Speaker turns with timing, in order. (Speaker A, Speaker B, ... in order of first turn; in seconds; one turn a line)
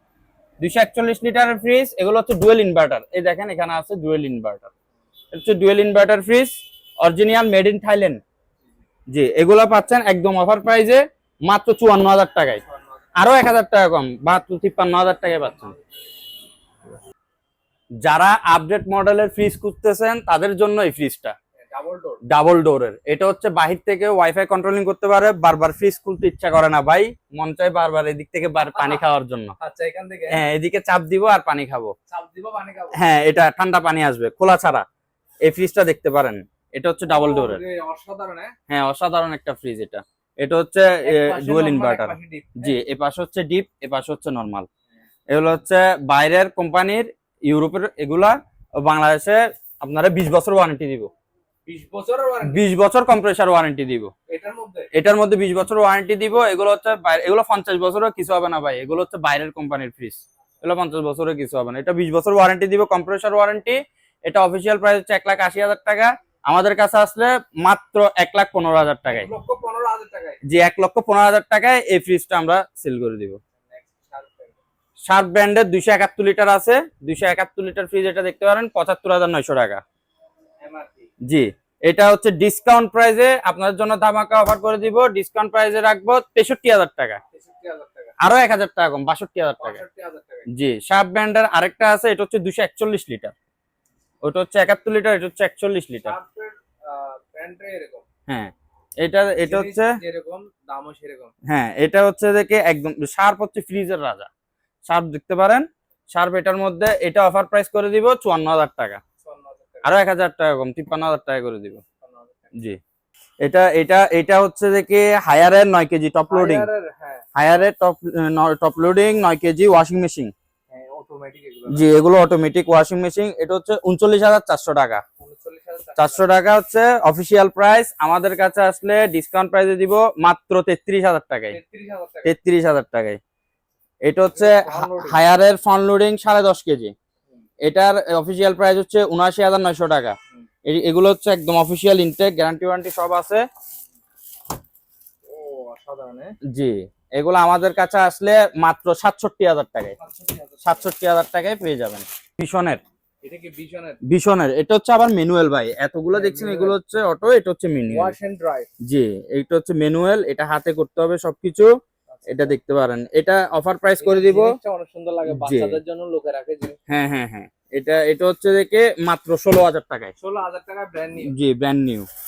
Speaker A: 0.6-4.7
Speaker A: 5.3-8.2
Speaker A: 9.1-12.6
Speaker B: 12.7-13.0
Speaker A: 13.2-15.7
Speaker A: 18.0-21.4
Speaker B: 21.6-22.2
Speaker A: 22.3-29.6
Speaker B: 28.6-29.0
Speaker B: 29.6-30.4
Speaker A: 30.3-31.9
Speaker B: 32.1-33.0
Speaker A: 32.9-34.9
Speaker A: 35.5-37.6
Speaker B: 37.1-38.5
Speaker A: 38.7-44.7
Speaker B: 41.0-42.8
Speaker A: 45.3-51.1
Speaker B: 51.7-52.6
Speaker A: 52.4-54.1
Speaker B: 54.3-54.9
Speaker A: 54.9-69.3
Speaker B: 69.1-70.4
Speaker A: 70.4-73.4
Speaker B: 73.7-74.6
Speaker A: 75.1-79.8
Speaker B: 80.6-81.1
Speaker A: 81.2-87.2
Speaker B: 87.3-88.2
Speaker A: 88.2-89.8
Speaker B: 89.6-90.5
Speaker A: 90.5-93.3
Speaker A: 94.2-96.2
Speaker B: 96.0-98.0
Speaker A: 98.3-99.9
Speaker B: 99.5-101.3
Speaker A: 101.5-104.3
Speaker A: 104.9-109.0
Speaker B: 109.2-109.9
Speaker A: 109.8-111.8
Speaker B: 112.0-112.5
Speaker A: 113.4-116.7
Speaker B: 116.3-117.3
Speaker A: 117.3-120.3
Speaker B: 120.7-121.9
Speaker A: 121.7-125.0
Speaker B: 125.2-126.2
Speaker A: 126.0-131.6
Speaker B: 131.5-132.3
Speaker A: 132.2-133.2
Speaker A: 134.0-136.9
Speaker B: 134.3-135.2
Speaker A: 137.6-143.4
Speaker B: 145.3-146.3
Speaker A: 146.5-150.0
Speaker B: 150.0-150.9
Speaker A: 150.6-152.8
Speaker B: 153.2-154.0
Speaker A: 154.1-158.2
Speaker B: 156.1-156.8
Speaker B: 157.9-158.7
Speaker A: 158.8-161.7
Speaker B: 162.1-162.6
Speaker A: 162.3-164.6
Speaker B: 164.0-166.8
Speaker A: 165.3-165.8
Speaker A: 166.9-170.1
Speaker B: 170.2-171.3
Speaker A: 171.2-172.1